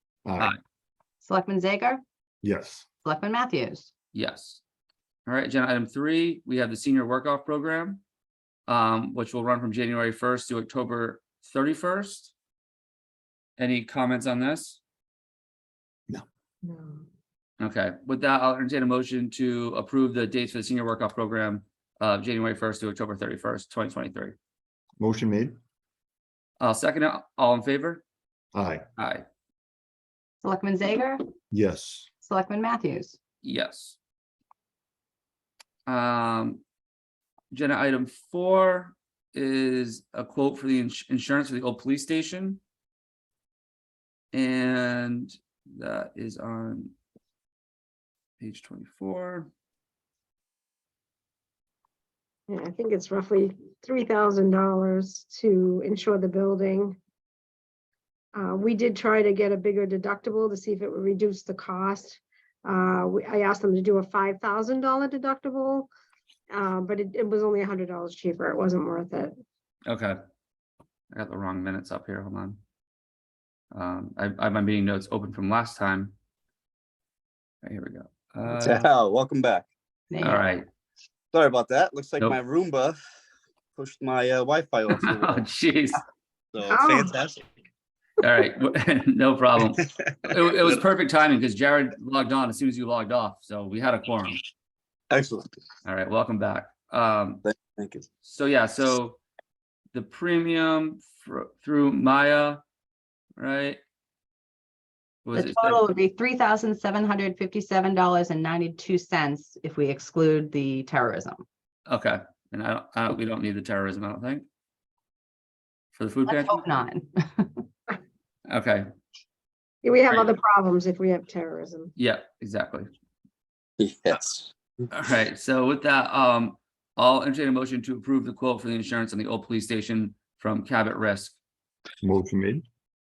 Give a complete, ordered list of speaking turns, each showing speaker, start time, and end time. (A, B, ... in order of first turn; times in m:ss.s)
0:00.2-0:00.5 A
0:01.2-0:02.0 B
0:02.4-0:02.8 A
0:03.0-0:03.9 B
0:04.1-0:04.6 C
0:05.2-0:08.0 C
0:08.7-0:12.3 C
0:13.6-0:14.8 C
0:16.6-0:17.0 D
0:17.6-0:24.3 C
0:25.0-0:25.6 A
0:26.6-0:28.0 C
0:28.5-0:28.8 A
0:29.0-0:29.2 C
0:30.4-0:31.2 B
0:31.5-0:32.1 A
0:32.2-0:33.2 B
0:33.4-0:34.0 C
0:35.9-0:36.6 C
0:37.5-0:42.6 C
0:44.3-0:46.9 C
0:48.4-0:49.5 C
0:52.5-0:57.0 D
0:58.3-1:05.9 D
1:06.5-1:09.3 D
1:09.9-1:10.2 C
1:11.1-1:12.6 C
1:13.7-1:16.1 C
1:17.6-1:18.9 C
1:18.6-1:19.7 E
1:20.1-1:20.4 B
1:20.2-1:20.6 C
1:21.3-1:23.0 E
1:23.7-1:25.4 E
1:25.1-1:26.0 C
1:26.5-1:27.4 E
1:26.7-1:27.1 D
1:28.2-1:34.4 C
1:35.1-1:35.6 E
1:35.8-1:37.4 C
1:37.4-1:38.0 E
1:38.2-1:39.2 C
1:39.9-1:42.6 C
1:43.4-1:43.8 C
1:45.2-1:45.8 C
1:45.3-1:51.4 B
1:51.9-1:54.4 C
1:55.9-1:56.6 C
1:56.2-1:57.6 B
1:58.5-1:58.9 C
1:59.8-2:01.9 D
2:02.0-2:02.9 C
2:03.8-2:04.5 E
2:04.9-2:11.4 C
2:12.0-2:12.6 A